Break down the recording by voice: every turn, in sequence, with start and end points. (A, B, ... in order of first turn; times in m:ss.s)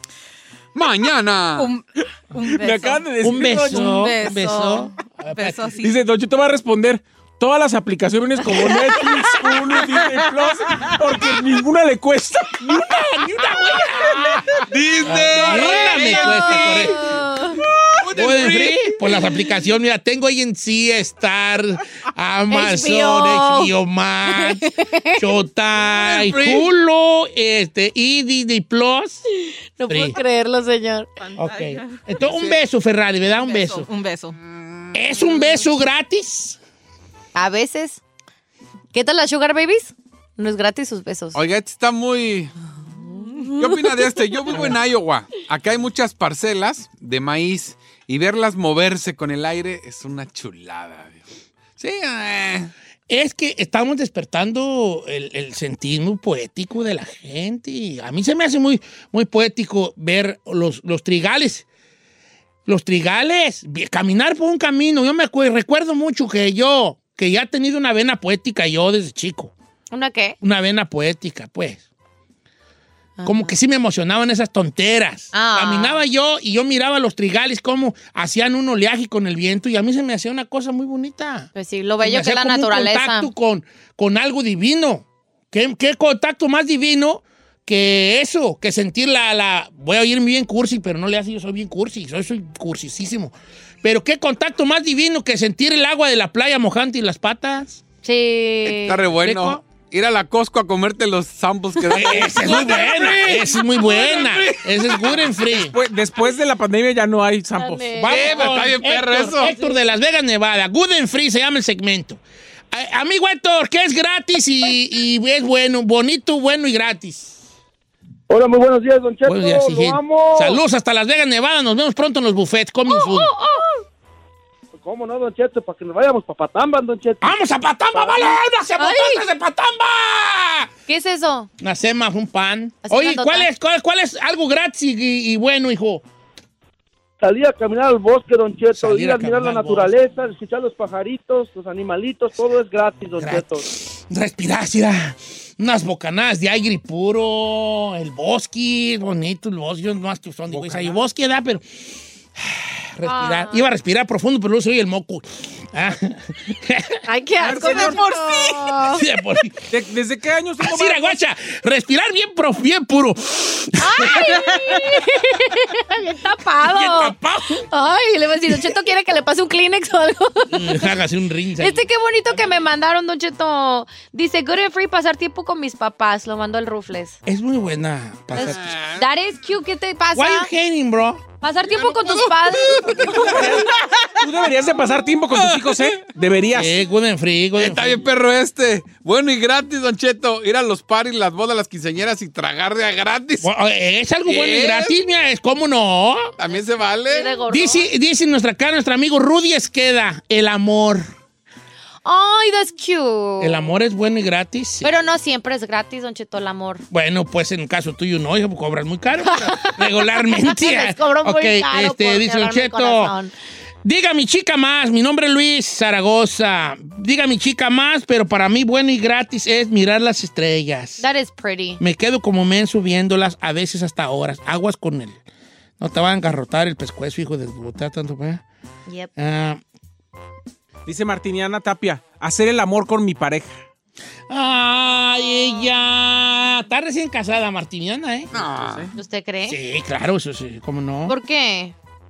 0:00.7-0:01.7 A
0:01.6-0:05.9 B
0:02.4-0:04.2 C
0:03.2-0:05.8 D
0:05.8-0:13.0 C
0:12.6-0:17.1 D
0:14.6-0:17.2 A
0:15.5-0:17.6 E
0:18.0-0:19.1 A
0:18.1-0:29.2 D
0:22.5-0:23.7 E
0:24.3-0:25.2 E
0:25.8-0:26.7 A
0:29.8-0:31.1 E
0:29.9-0:30.2 D
0:31.2-0:32.3 B
0:31.3-0:33.9 D
0:32.2-0:32.6 A
0:33.3-0:34.4 B
0:34.4-0:35.1 A
0:34.9-0:36.6 D
0:37.3-0:38.0 E
0:38.9-0:41.4 E
0:41.3-0:42.5 A
0:43.2-0:43.7 E
0:43.6-0:51.2 A
0:51.8-0:52.7 A
0:53.1-1:01.6 D
1:02.6-1:09.5 D
1:09.9-1:10.4 E
1:10.4-1:11.8 D
1:13.2-1:13.6 E
1:13.2-1:37.8 D
1:15.3-1:16.0 E
1:21.5-1:23.3 E
1:38.0-1:39.0 E
1:38.7-1:45.4 A
1:39.1-1:39.6 D
1:41.9-1:45.7 D
1:45.5-1:48.0 C
1:47.5-1:48.5 E
1:48.0-1:57.4 D
1:48.0-1:49.6 A
1:58.3-2:00.6 F
1:59.2-2:03.3 D
2:02.9-2:03.8 E
2:04.8-2:07.4 F
2:07.2-2:10.7 D
2:07.9-2:08.3 F
2:08.8-2:09.2 E
2:10.9-2:11.5 E
2:11.6-2:16.0 D
2:12.8-2:13.5 E
2:17.2-2:23.6 F
2:18.7-2:19.9 D
2:23.2-2:31.8 D
2:30.5-2:31.0 C
2:32.4-2:37.0 D
2:33.0-2:33.6 E
2:37.0-2:39.0 E
2:37.4-2:38.3 C
2:38.9-2:39.7 D
2:39.7-2:41.2 C
2:40.6-2:44.8 D
2:43.8-2:47.1 E
2:46.6-2:47.7 D
2:47.7-2:50.9 E
2:50.5-2:51.8 D
2:51.6-2:57.2 E
2:57.2-2:58.8 D
2:58.4-2:59.1 A
2:58.4-3:00.5 E
3:00.1-3:01.2 D
3:01.4-3:03.3 E
3:01.8-3:03.5 A
3:03.1-3:06.8 C
3:05.4-3:05.8 A
3:06.5-3:08.0 D
3:07.6-3:13.5 A
3:13.4-3:16.3 D
3:14.2-3:15.0 A
3:16.4-3:17.4 A
3:16.5-3:17.9 E
3:17.5-3:21.1 D
3:22.0-3:23.6 E
3:23.4-3:24.9 D
3:24.8-3:26.8 E
3:26.9-3:33.1 D
3:29.2-3:33.3 E
3:33.8-3:41.0 D
3:41.0-3:41.8 E
3:41.8-3:45.2 D
3:45.8-3:48.4 D
3:49.2-3:49.6 D
3:50.8-3:53.6 C
3:54.3-3:58.3 D
3:58.3-3:58.9 A
3:58.4-3:58.9 C
3:58.9-3:59.6 E
3:59.4-4:01.1 D
4:01.1-4:01.7 E